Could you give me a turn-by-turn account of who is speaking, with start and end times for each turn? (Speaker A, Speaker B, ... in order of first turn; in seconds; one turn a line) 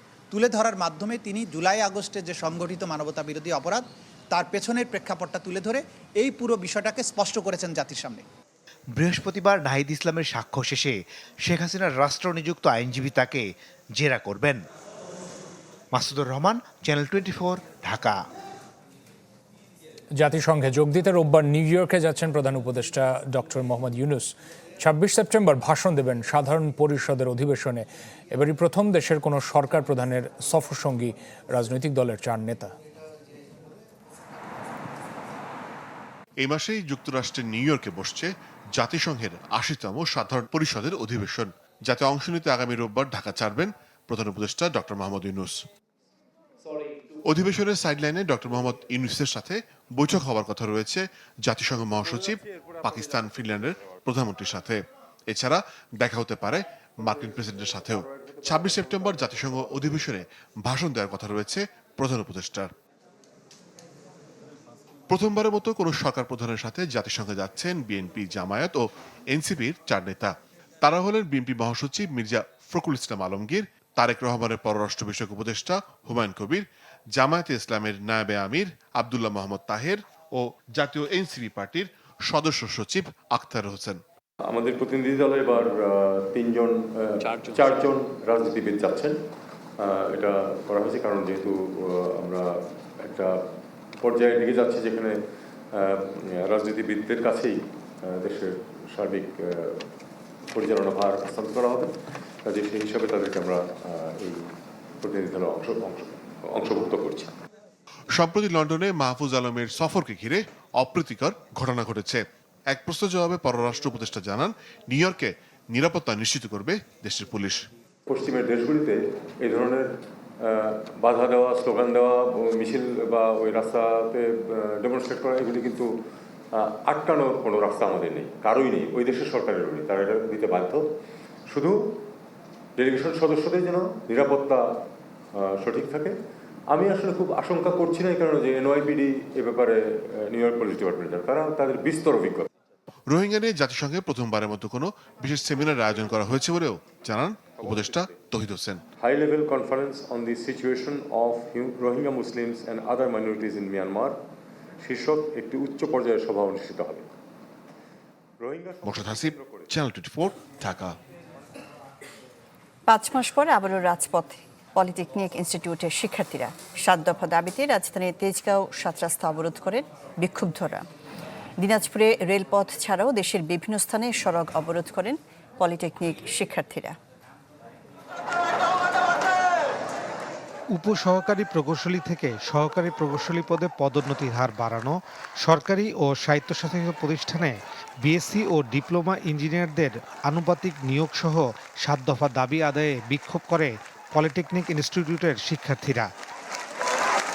Speaker A: 0.3-8.2
Speaker B: 9.0-14.6
Speaker B: 15.9-18.2
Speaker C: 20.2-32.7
Speaker D: 36.4-45.6
Speaker D: 47.2-62.7
Speaker E: 52.9-53.4
Speaker E: 58.1-60.1
Speaker D: 65.1-84.0
Speaker E: 84.5-89.2
Speaker E: 89.8-92.5
Speaker E: 93.1-93.4
Speaker E: 94.0-95.2
Speaker E: 95.8-99.8
Speaker E: 100.5-101.9
Speaker E: 102.5-104.4
Speaker E: 105.0-107.3
Speaker D: 108.1-117.7
Speaker E: 118.1-119.9
Speaker E: 120.5-125.9
Speaker E: 126.6-130.9
Speaker E: 131.5-132.0
Speaker E: 132.8-134.6
Speaker E: 135.4-136.2
Speaker E: 136.7-142.5
Speaker D: 143.1-148.8
Speaker E: 147.5-148.1
Speaker E: 149.0-154.2
Speaker E: 154.8-157.1
Speaker E: 158.4-159.7
Speaker D: 158.8-161.0
Speaker F: 162.9-170.8
Speaker F: 171.6-177.0
Speaker G: 180.7-196.1